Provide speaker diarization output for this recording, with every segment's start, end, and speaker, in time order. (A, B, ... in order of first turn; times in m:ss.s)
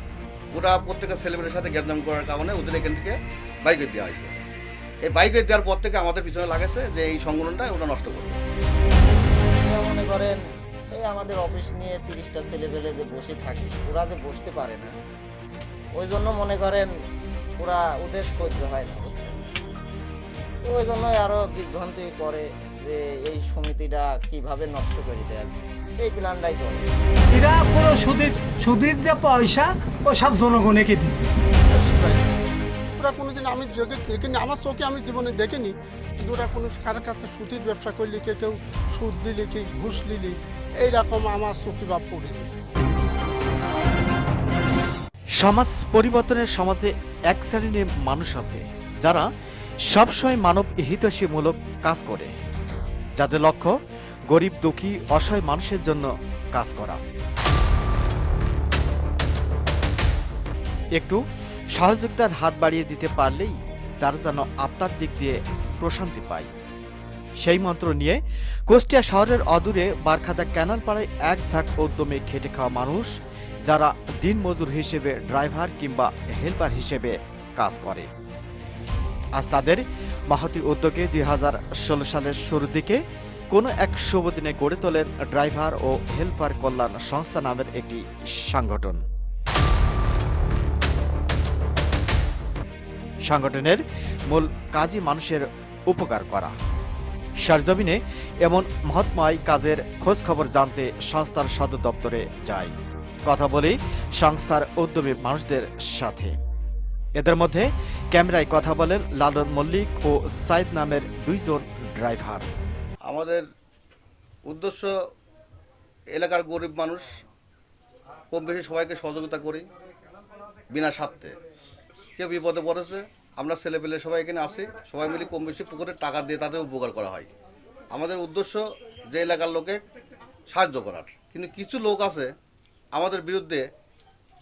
0:00.5-0:04.3 A
0:05.0-0:08.4 A
0:09.6-0:10.4 B
0:10.9-0:14.9 B
0:16.0-0:16.9 B
0:17.6-0:19.4 B
0:20.6-0:26.9 B
0:27.3-0:31.3 C
0:31.7-0:32.3 D
0:33.0-0:42.5 D
0:45.4-0:49.3 E
0:49.9-0:52.3 E
0:53.2-0:53.7 E
0:54.3-0:57.0 E
1:01.7-1:06.5 E
1:07.4-1:13.1 E
1:13.6-1:18.1 E
1:19.4-1:23.0 E
1:23.5-1:29.0 E
1:33.2-1:36.5 E
1:37.4-1:42.7 E
1:43.3-1:46.4 E
1:47.2-1:52.5 E
1:53.0-1:53.4 A
1:54.5-1:54.9 A
1:56.1-1:57.2 A
1:58.3-1:59.7 A
2:00.7-2:01.4 A
2:02.2-2:07.3 A
2:07.9-2:09.8 A
2:10.5-2:12.3 A
2:12.9-2:13.7 A